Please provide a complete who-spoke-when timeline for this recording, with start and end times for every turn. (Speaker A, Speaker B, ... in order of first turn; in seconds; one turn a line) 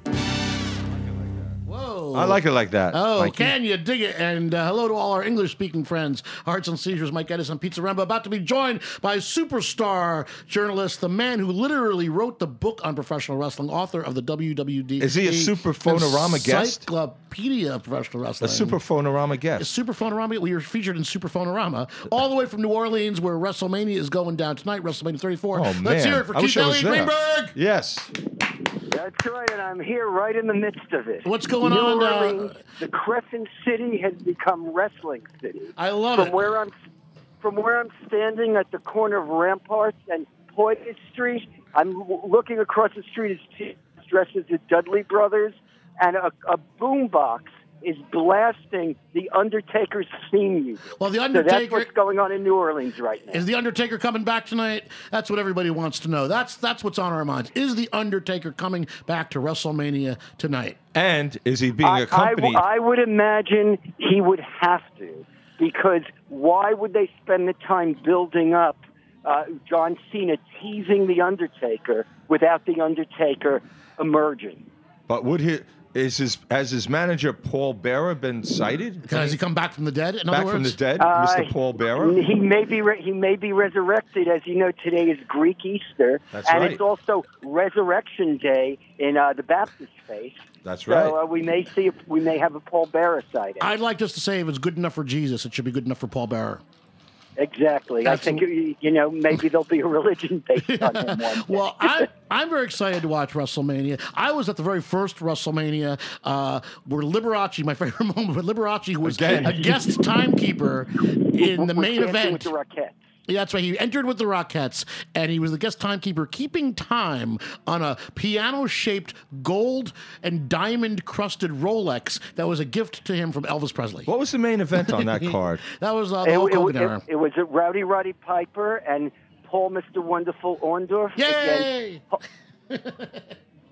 Speaker A: 1.1-1.5
Speaker B: 1.6-18.8
Speaker A: 2.1-3.5
Speaker A: 15.0-16.8
Speaker A: 18.4-19.7
Speaker B: 19.6-27.6
Speaker A: 25.5-28.1
Speaker C: 28.9-36.7
Speaker B: 31.2-32.5
Speaker B: 35.8-36.5
Speaker C: 37.4-53.4
Speaker B: 51.0-51.9
Speaker B: 53.3-60.8
Speaker A: 60.9-62.6
Speaker C: 61.8-74.7
Speaker A: 75.1-79.2
Speaker B: 79.0-80.8
Speaker A: 80.3-82.2
Speaker C: 81.0-93.7
Speaker A: 86.3-86.8
Speaker A: 90.6-91.2
Speaker B: 93.6-96.6
Speaker C: 97.4-102.1
Speaker B: 98.0-98.4
Speaker B: 100.6-112.5
Speaker A: 109.0-109.8
Speaker C: 111.3-113.0
Speaker B: 113.3-124.1
Speaker A: 124.1-125.6
Speaker B: 124.8-127.0
Speaker C: 126.2-132.2
Speaker B: 131.2-132.0
Speaker B: 132.7-133.3